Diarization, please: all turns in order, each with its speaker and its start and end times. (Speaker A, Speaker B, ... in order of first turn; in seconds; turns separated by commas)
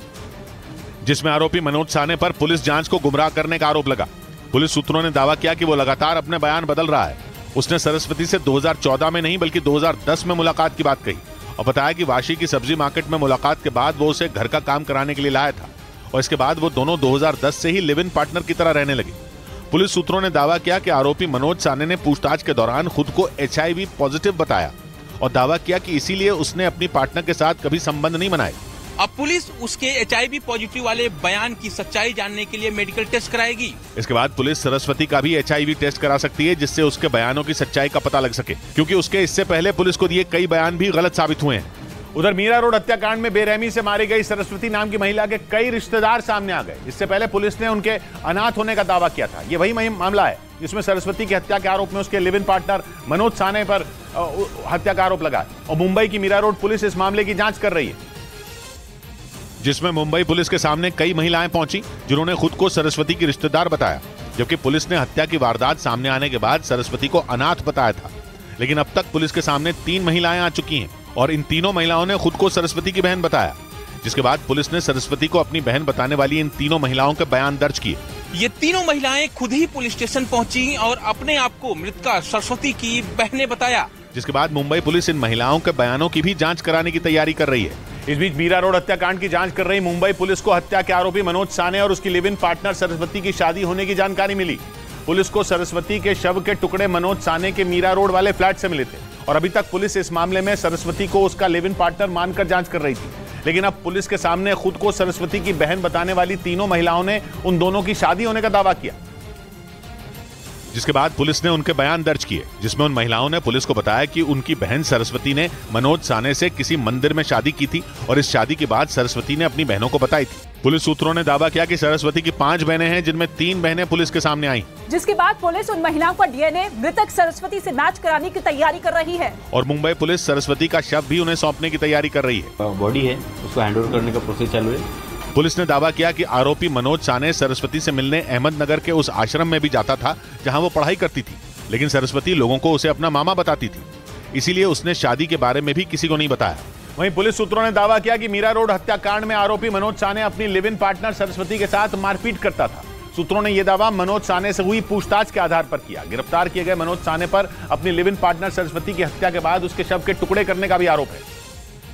Speaker A: 1.0-19.2, Speaker A: 19.7-28.6, Speaker B: 29.0-33.8, Speaker A: 34.0-58.0, Speaker A: 59.6-78.0, Speaker B: 78.3-83.9, Speaker A: 84.1-109.0, Speaker A: 110.7-124.7, Speaker C: 124.9-129.4, Speaker A: 129.5-132.5, Speaker D: 132.6-134.8, Speaker A: 135.3-161.2